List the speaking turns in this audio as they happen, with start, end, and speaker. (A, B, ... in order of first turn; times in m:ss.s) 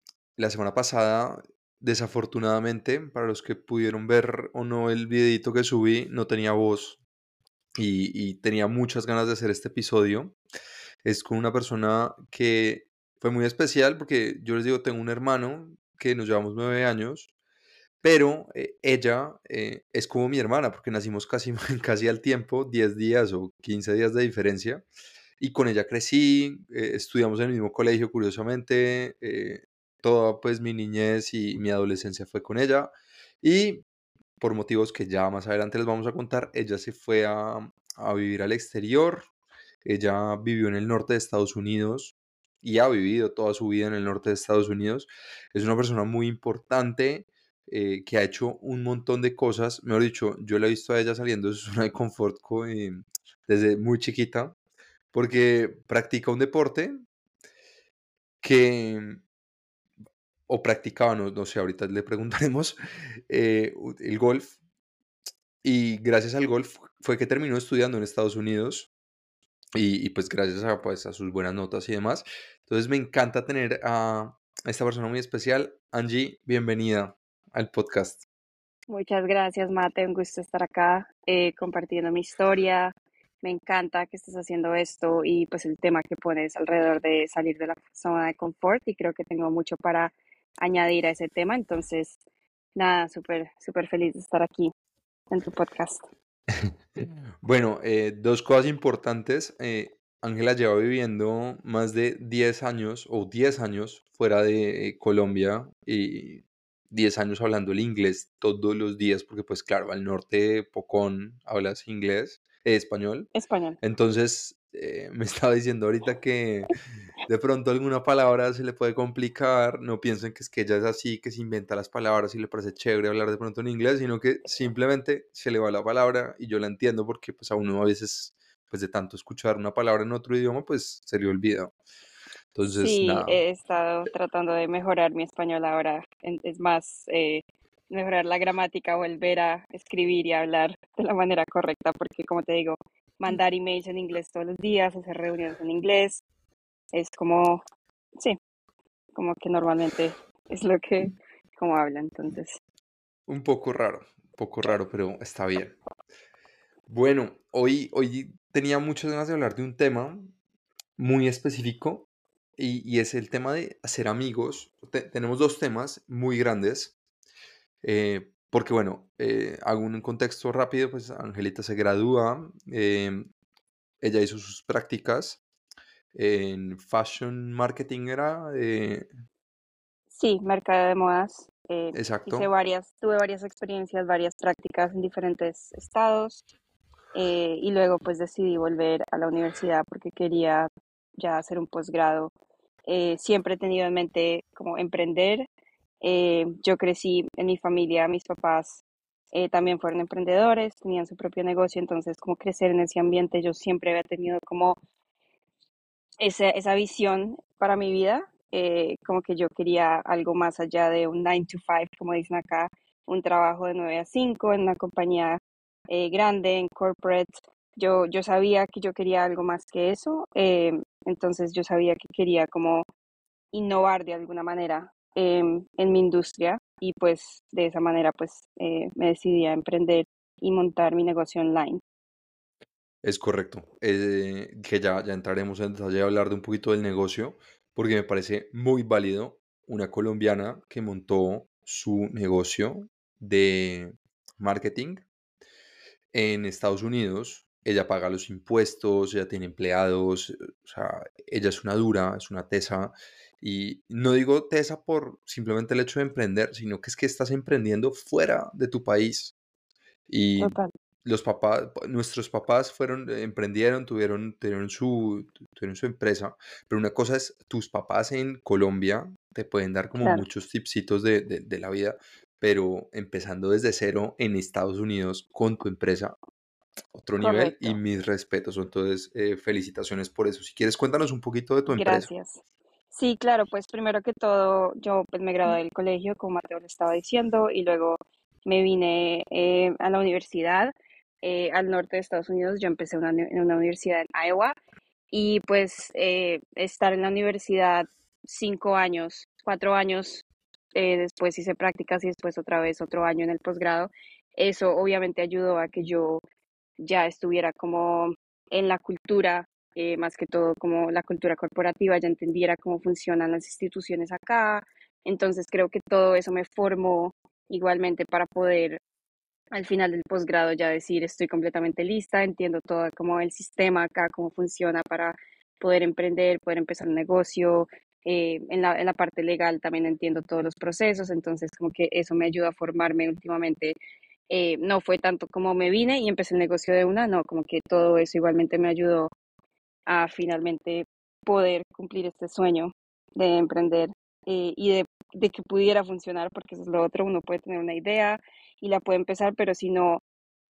0:00.4-0:07.0 A
0:07.8-0:10.4 A
0:11.0-0:17.3 A
0:18.0-0:24.8 A
0:25.4-0:32.9 A
0:33.4-0:33.8 A
0:34.4-0:39.3 A
0:39.8-0:54.5 A
0:55.1-0:57.0 A
0:58.4-0:59.2 A
1:00.5-1:02.8 A
1:03.3-1:04.6 A
1:05.6-1:08.9 A
1:09.7-1:18.2 A
1:18.9-1:32.2 B
1:32.7-1:34.7 B
1:35.3-1:36.1 B
1:36.5-1:53.3 A
1:53.3-1:53.8 B
1:53.8-1:56.7 A
1:57.2-2:11.7 A
2:12.5-2:13.4 A
2:12.8-2:26.2 B
2:26.9-2:27.6 B
2:29.1-2:32.6 B
2:33.3-2:35.8 A
2:36.9-2:40.3 A
2:41.0-2:42.0 A
2:42.6-2:46.9 A
2:47.8-2:53.3 A
2:54.0-2:55.4 A
2:56.1-2:59.1 A
3:00.1-3:06.4 B
3:01.9-3:02.5 A
3:07.1-3:12.3 B
3:12.8-3:15.4 B
3:16.0-3:24.8 B
3:26.2-3:42.8 B
3:43.5-3:51.8 B
3:53.0-4:05.0 A
4:06.1-4:19.3 A
4:20.1-4:36.2 A
4:20.4-4:20.7 B
4:30.0-4:30.2 B
4:36.9-4:42.1 A
4:37.2-4:37.8 B
4:41.7-4:54.5 B
4:55.1-5:06.2 B
5:06.8-5:18.8 B
5:19.5-5:33.8 B
5:34.3-5:39.1 B
5:39.9-5:50.0 B